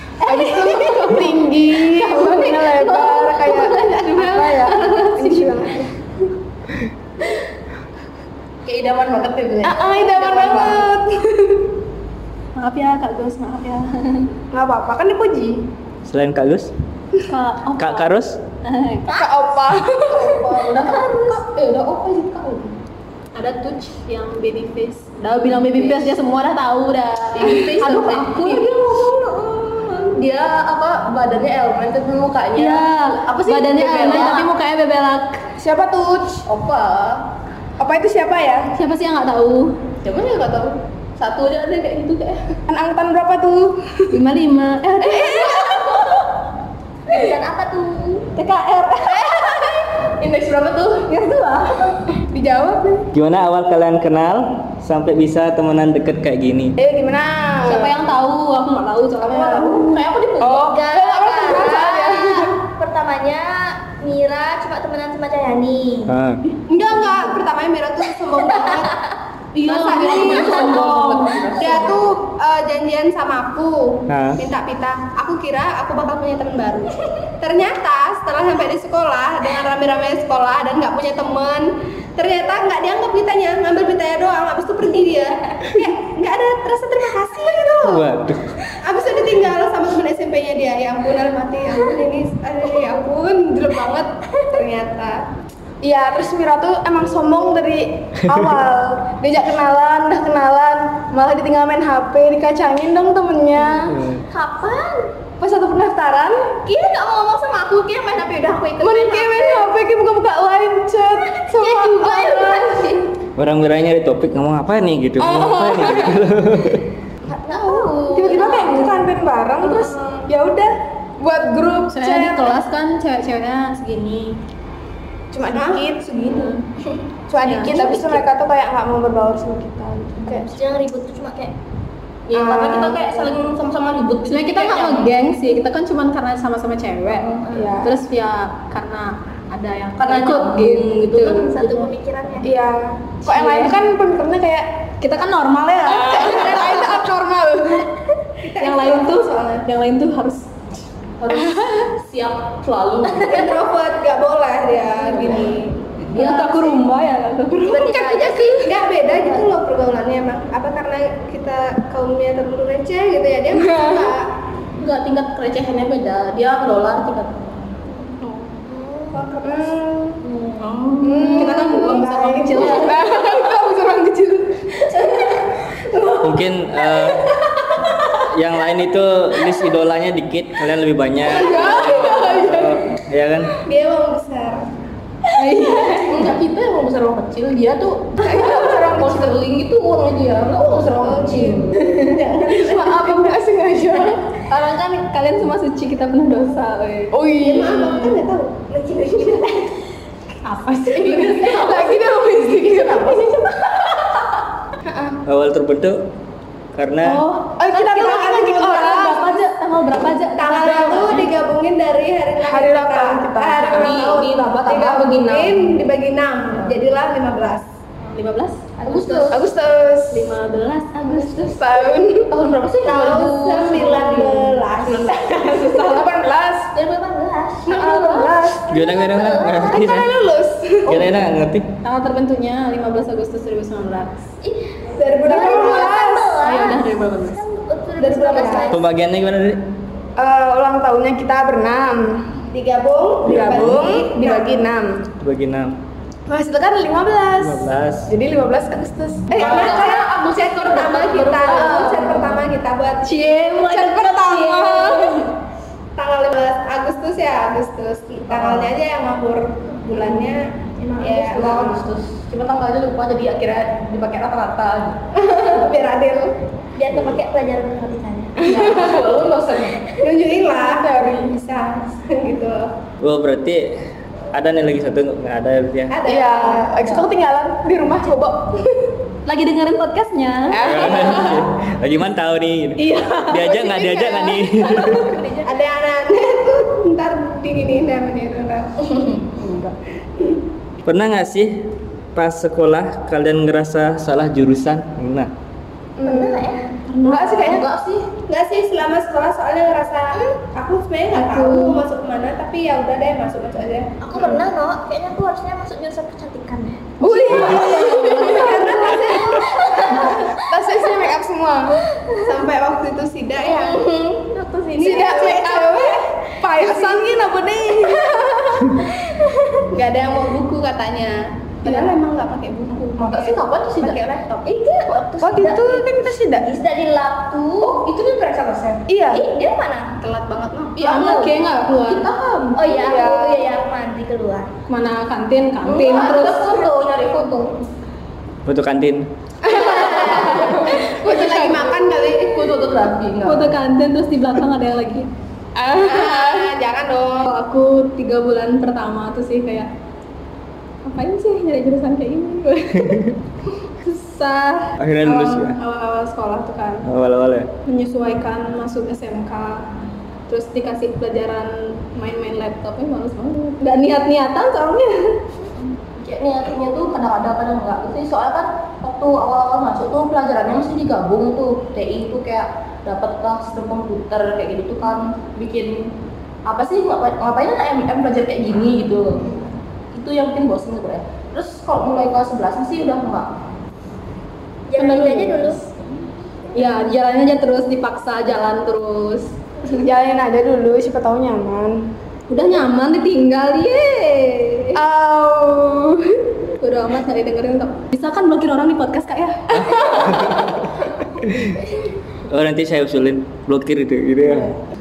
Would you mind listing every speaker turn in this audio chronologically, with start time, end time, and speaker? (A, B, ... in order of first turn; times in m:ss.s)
0:00.2-0:05.9 A
0:00.3-0:05.7 B
0:08.6-0:10.9 C
0:09.6-0:11.6 A
0:12.6-0:14.3 B
0:14.5-0:15.6 A
0:16.0-0:16.7 D
0:17.3-0:18.1 B
0:17.8-0:18.4 D
0:18.6-0:19.2 B
0:19.1-0:20.5 A
0:20.1-0:22.7 C
0:20.8-0:21.4 E
0:23.3-0:28.7 B
0:27.3-0:34.5 C
0:32.5-0:35.5 B
0:35.6-0:36.4 A
0:36.4-0:37.2 C
0:37.8-0:38.7 A
0:38.8-0:39.8 B
0:40.0-0:42.5 C
0:42.7-0:44.2 A
0:44.1-0:45.6 B
0:45.1-0:46.0 A
0:47.1-0:48.3 E
0:48.4-0:49.3 B
0:49.5-0:49.7 A
0:49.5-0:51.1 C
0:51.1-0:52.0 B
0:52.3-0:53.0 A
0:53.1-0:56.7 D
0:56.8-0:58.0 A
0:57.6-0:59.9 B
0:59.2-1:00.7 C
1:00.4-1:02.5 A
1:00.5-1:06.1 E
1:06.1-1:06.4 D
1:06.7-1:09.0 F
1:08.3-1:09.0 E
1:09.6-1:12.1 C
1:09.6-1:11.5 B
1:09.6-1:28.1 F
1:14.1-1:14.4 D
1:27.8-1:28.5 D
1:28.7-1:35.2 F
1:35.8-1:43.9 A
1:38.2-1:38.5 D
1:43.9-1:44.2 D
1:44.3-1:45.1 E
1:45.4-1:46.5 A
1:46.6-1:49.7 E
1:48.8-1:53.0 A
1:51.2-1:53.0 E
1:53.4-1:56.9 D
1:55.2-1:56.2 A
1:57.3-1:58.9 E
1:57.5-2:02.6 A
1:58.2-1:58.9 C
1:59.6-2:00.2 C
2:01.9-2:04.4 B
2:05.3-2:06.5 A
2:06.3-2:06.6 B
2:07.3-2:10.5 A
2:07.4-2:07.8 B
2:07.5-2:08.2 C
2:10.3-2:11.5 E
2:12.3-2:15.1 C
2:12.3-2:13.3 A
2:14.2-2:17.3 B
2:17.1-2:17.5 C
2:17.4-2:17.8 E
2:17.5-2:17.9 A
2:17.8-2:21.4 B
2:20.0-2:21.9 C
2:21.1-2:22.5 E
2:22.4-2:24.8 A
2:23.2-2:23.8 B
2:25.0-2:26.9 B
2:25.9-2:27.9 A
2:28.5-2:29.4 F
2:28.6-2:30.5 B
2:31.2-2:33.5 C
2:31.3-2:31.9 A
2:33.0-2:33.6 E
2:33.2-2:35.8 F
2:35.0-2:35.5 C
2:36.1-2:36.7 C
2:36.1-2:37.9 B
2:37.6-2:38.8 E
2:37.8-2:38.3 A
2:37.9-2:44.3 F
2:43.5-2:44.1 A
2:44.8-2:47.7 C
2:48.2-2:48.6 B
2:48.6-2:49.7 E
2:49.4-2:50.2 A
2:50.2-2:53.0 C
2:50.6-2:52.9 B
2:51.0-2:55.0 A
2:51.9-2:52.9 F
2:54.8-2:56.4 C
2:56.2-2:57.3 D
2:58.1-3:03.5 D
3:01.2-3:02.8 A
3:03.6-3:04.6 F
3:05.3-3:06.3 B
3:05.8-3:13.3 C
3:08.2-3:09.4 A
3:12.4-3:14.4 A
3:14.5-3:17.2 B
3:17.1-3:18.2 A
3:17.4-3:18.7 F
3:17.6-3:17.9 E
3:18.5-3:19.8 E
3:20.4-3:21.9 B
3:20.9-3:23.3 A
3:22.9-3:23.6 B
3:24.8-3:25.2 A
3:25.2-3:26.0 D
3:26.7-3:27.2 D
3:27.0-3:31.3 B
3:27.6-3:29.4 A
3:28.0-3:28.3 F
3:30.4-3:37.7 F
3:32.4-3:34.2 A
3:33.6-3:35.6 C
3:38.0-3:38.7 B
3:38.8-3:39.4 C
3:38.9-3:39.3 F
3:39.3-3:40.3 A
3:40.1-3:41.6 B
3:41.5-3:42.4 A
3:42.3-3:45.6 C
3:42.8-3:45.9 F
3:45.5-3:46.7 A
3:46.7-3:47.8 E
3:47.6-3:48.4 C
3:47.7-3:48.8 A
3:48.7-3:50.1 D
3:48.7-3:50.0 E
3:49.6-3:51.1 A
3:50.8-3:51.6 D
3:51.8-3:54.2 B
3:54.4-3:58.9 E
3:55.0-3:56.4 A
3:56.4-3:57.4 B
3:58.0-3:58.8 A
3:58.7-3:59.6 D
4:00.2-4:02.3 A
4:02.5-4:04.6 F
4:03.2-4:05.0 A
4:03.2-4:03.8 D
4:05.2-4:05.8 D
4:06.3-4:10.0 A
4:07.4-4:08.1 D
4:09.3-4:13.2 F
4:09.3-4:12.4 C
4:11.5-4:11.9 A
4:13.0-4:15.2 B
4:13.5-4:15.3 A
4:16.0-4:21.8 F
4:18.3-4:18.7 C
4:20.8-4:25.0 C
4:25.1-4:26.3 F
4:26.8-4:28.5 E
4:28.4-4:29.9 C
4:28.5-4:29.0 A
4:30.0-4:32.7 F
4:30.4-4:31.4 A
4:33.0-4:33.8 D
4:34.3-4:36.0 D
4:35.9-4:36.7 F
4:36.0-4:38.7 A
4:36.8-4:37.1 C
4:39.2-4:40.7 B
4:40.5-4:41.5 A
4:40.6-4:45.1 D
4:42.8-4:45.2 B
4:45.0-4:45.4 E
4:45.4-4:49.0 F
4:50.8-4:55.3 D
4:56.0-4:57.6 A
4:56.0-4:56.7 E
4:56.9-4:57.6 B
4:57.4-4:58.1 C
4:58.3-5:04.0 F
5:01.1-5:01.8 B
5:04.0-5:06.9 E
5:07.0-5:09.2 B
5:07.0-5:11.8 A
5:08.1-5:10.1 F
5:08.8-5:10.8 E
5:11.9-5:12.4 E
5:12.2-5:13.8 F
5:13.4-5:19.7 E
5:14.8-5:15.5 F
5:14.8-5:18.9 A
5:19.7-5:24.4 F
5:23.0-5:24.1 C
5:24.3-5:27.8 E
5:25.2-5:26.4 A
5:27.6-5:28.8 C
5:28.9-5:29.2 A
5:29.1-5:29.9 E
5:30.0-5:30.8 F
5:30.8-5:32.7 C
5:30.8-5:32.1 B
5:32.5-5:34.5 E
5:32.7-5:33.6 A
5:34.7-5:36.5 B
5:35.6-5:37.6 C
5:35.9-5:37.0 E
5:38.4-5:39.0 D
5:39.4-5:41.7 A
5:39.5-5:40.6 E
5:39.5-5:42.5 F
5:42.2-5:43.5 C
5:43.2-5:45.1 B
5:45.6-5:46.5 A
5:45.8-5:47.3 F
5:47.2-5:49.7 B
5:50.8-5:53.1 B
5:52.7-5:53.1 D
5:53.8-5:56.9 B
5:54.8-5:55.6 D
5:56.8-5:57.5 D
5:57.6-5:59.7 B
6:00.3-6:05.2 B
6:05.9-6:15.9 C
6:16.4-6:23.4 C
6:24.7-6:25.6 E
6:24.8-6:25.7 B
6:26.5-6:29.4 B
6:29.8-6:31.8 A
6:32.3-6:34.8 B
6:34.7-6:36.1 A
6:36.6-6:40.4 B
6:39.5-6:41.6 D
6:42.3-6:44.5 D